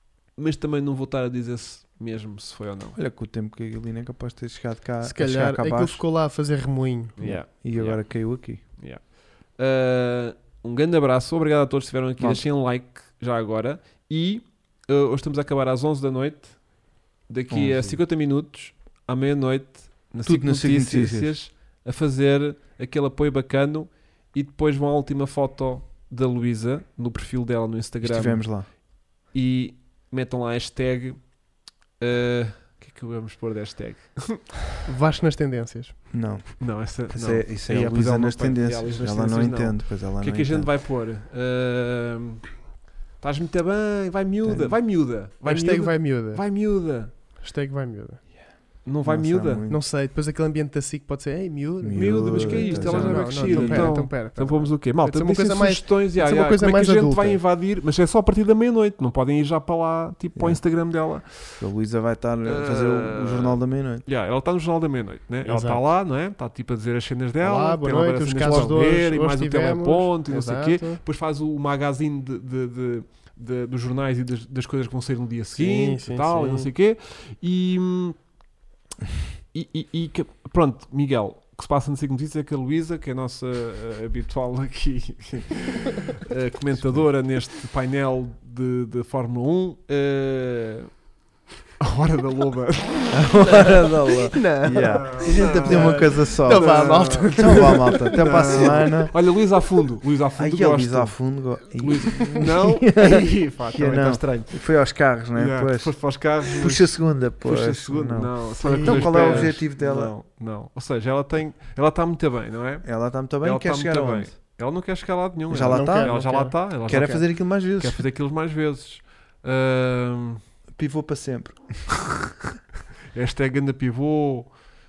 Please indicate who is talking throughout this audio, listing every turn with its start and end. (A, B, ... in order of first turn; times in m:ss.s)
0:00.4-0:03.0 A
0:03.0-0:06.0 B
0:05.0-0:07.3 C
0:07.2-0:31.4 A
0:07.2-0:08.6 B
0:12.2-0:12.4 B
0:17.5-0:18.0 B
0:20.2-0:21.3 B
0:28.0-0:28.7 B
0:32.0-0:34.6 A
0:34.8-0:36.0 C
0:36.1-0:40.7 B
0:36.6-0:42.5 A
0:43.2-0:47.1 A
0:44.4-0:44.8 B
0:45.4-0:46.4 C
0:47.4-0:48.2 C
0:48.8-0:49.6 A
0:49.0-0:49.8 B
0:49.7-0:57.4 C
0:51.8-0:54.0 B
0:51.9-1:01.6 A
1:00.4-1:00.6 B
1:01.6-1:04.0 B
1:02.4-1:18.2 A
1:05.4-1:05.8 C
1:07.4-1:11.0 C
1:15.6-1:16.7 C
1:19.5-1:30.9 A
1:26.8-1:27.1 B
1:31.8-1:33.4 A
1:33.1-1:39.1 B
1:33.4-1:38.4 C
1:34.8-1:44.7 A
1:40.4-1:50.1 B
1:45.3-2:00.4 A
1:48.6-1:49.5 C
1:52.8-1:54.3 B
1:55.5-1:58.0 B
1:55.7-1:57.2 C
2:00.7-2:01.9 B
2:03.1-2:04.5 A